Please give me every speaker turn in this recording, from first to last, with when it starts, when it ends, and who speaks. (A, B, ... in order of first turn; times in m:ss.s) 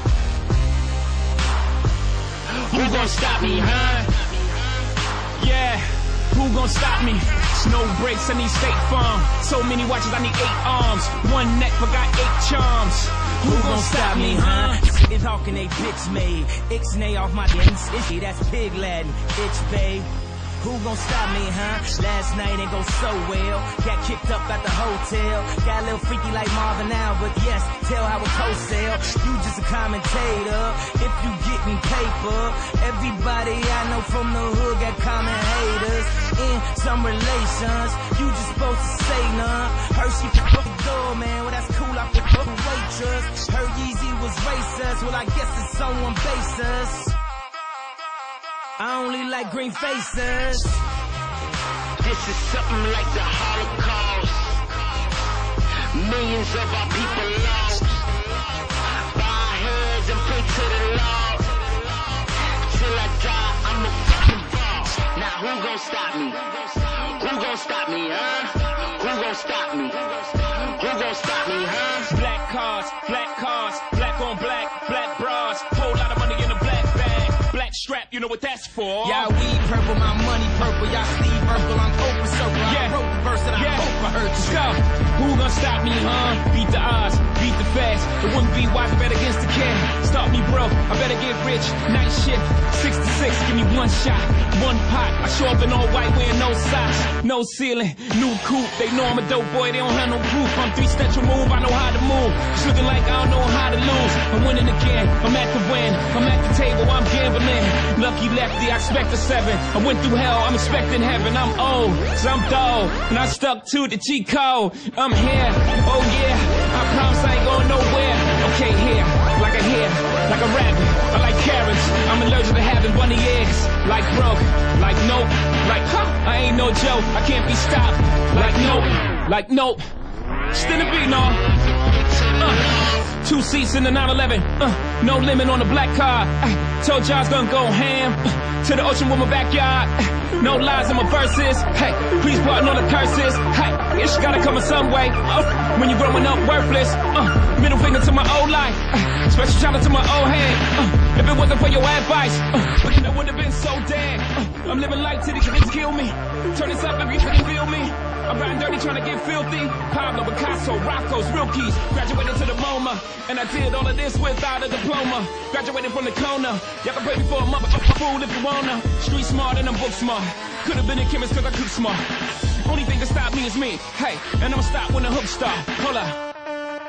0:02.7-0:04.1 A
0:02.7-0:04.8 B
0:05.4-0:14.8 A
0:13.4-0:47.2 C
0:48.8-0:50.8 C
0:52.0-0:54.7 B
0:55.9-0:58.1 B
0:59.0-1:12.0 B
1:12.0-1:19.3 A
1:19.0-1:24.6 C
1:22.6-1:23.0 A
1:23.5-2:09.8 A
2:10.5-2:11.5 A
2:12.3-2:56.2 A